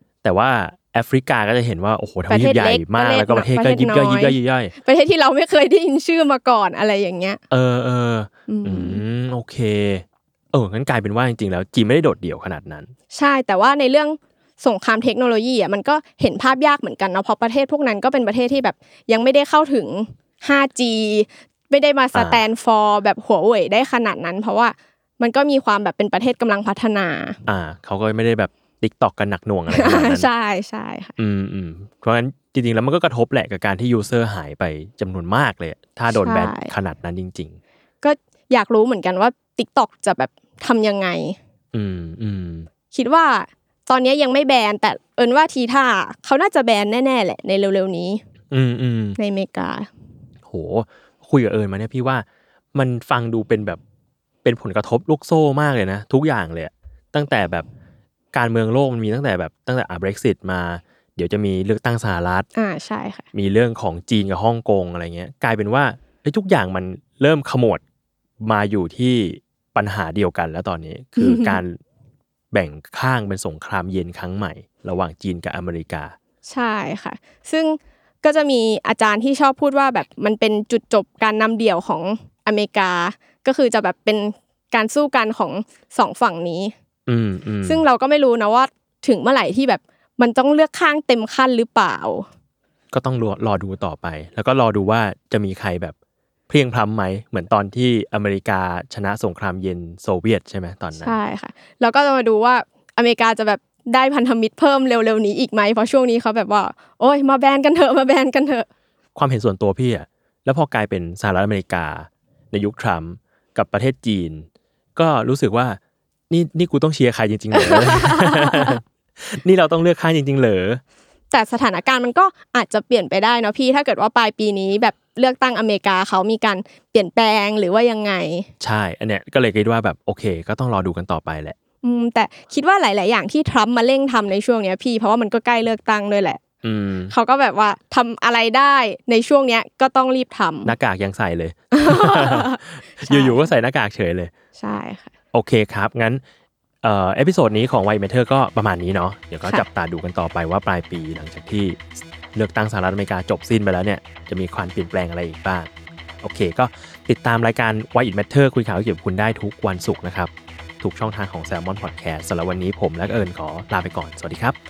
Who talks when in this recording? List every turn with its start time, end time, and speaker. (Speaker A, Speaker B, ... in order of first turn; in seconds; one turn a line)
Speaker A: 0.2-4.7
Speaker B: 2.3-7.4
Speaker A: 7.5-12.9
Speaker B: 8.5-9.0
Speaker B: 13.1-27.4
Speaker A: 22.1-22.4
Speaker A: 27.5-30.3
Speaker B: 29.7-31.1
Speaker A: 31.2-37.6
Speaker B: 36.1-36.7
Speaker B: 38.0-41.4
Speaker A: 41.7-42.7
Speaker B: 42.9-48.2
Speaker A: 48.5-49.2
Speaker B: 49.2-49.9
Speaker A: 50.5-53.8
Speaker A: 54.4-57.7
Speaker A: 58.3-62.5
Speaker B: 62.6-63.3
Speaker A: 63.3-67.8
Speaker A: 68.4-71.8
Speaker B: 71.2-71.6
Speaker A: 72.5-76.2
Speaker B: 76.5-86.7
Speaker A: 87.1-87.8
Speaker B: 87.7-92.3
Speaker A: 92.9-96.0
Speaker A: 96.5-101.2
Speaker B: 101.0-108.7
Speaker A: 109.2-115.8
Speaker A: 116.3-120.8
Speaker B: 117.5-118.8
Speaker B: 121.3-128.5
Speaker A: 128.6-131.6
Speaker B: 131.8-136.4
Speaker A: 136.6-137.1
Speaker B: 137.1-140.7
Speaker A: 140.7-144.3
Speaker B: 141.7-143.5
Speaker B: 144.6-145.1
Speaker A: 145.3-146.2
Speaker A: 146.8-155.7
Speaker A: 156.2-164.6